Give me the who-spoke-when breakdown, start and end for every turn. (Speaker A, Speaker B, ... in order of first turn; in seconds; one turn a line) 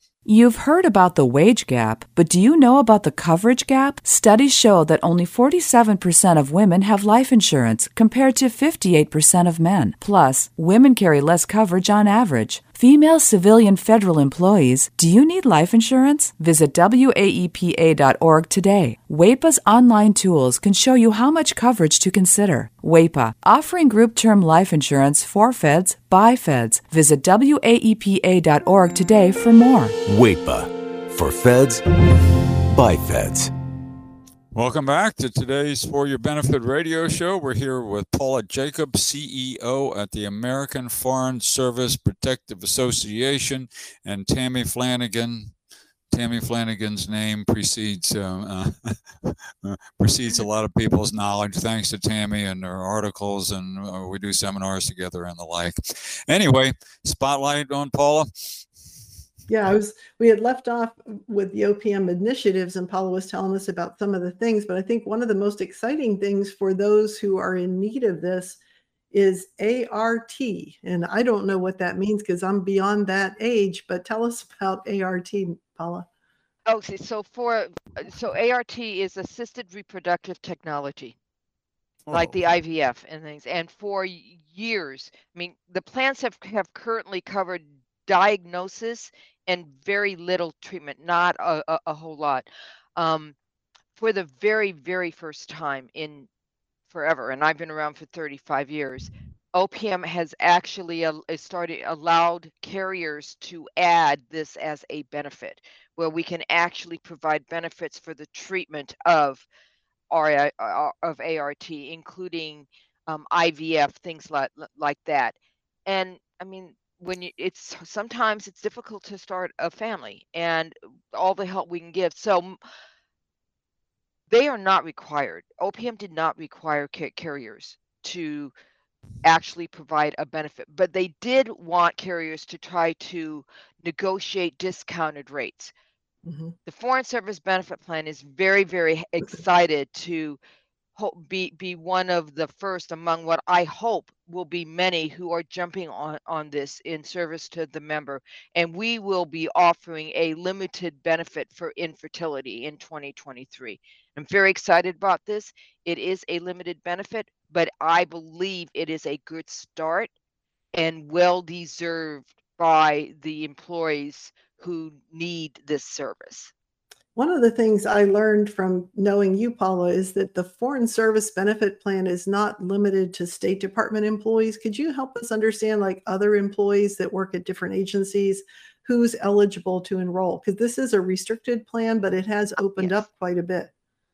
Speaker A: 0.2-29.9
Speaker B: 30.1-31.8
Speaker B: 32.7-33.5
Speaker C: 34.5-45.5
Speaker C: 46.1-58.7
Speaker D: 59.5-68.6
Speaker D: 69.1-76.1
Speaker E: 76.7-81.2
Speaker C: 82.1-82.3
Speaker E: 82.1-93.3
Speaker E: 94.0-96.3
Speaker E: 96.9-109.4
Speaker E: 110.1-115.3
Speaker E: 115.8-122.6
Speaker E: 124.3-128.5
Speaker E: 129.2-135.7
Speaker D: 136.2-136.5
Speaker E: 136.7-140.4
Speaker E: 140.9-160.1
Speaker E: 160.7-166.5
Speaker D: 167.1-183.7
Speaker E: 182.8-183.0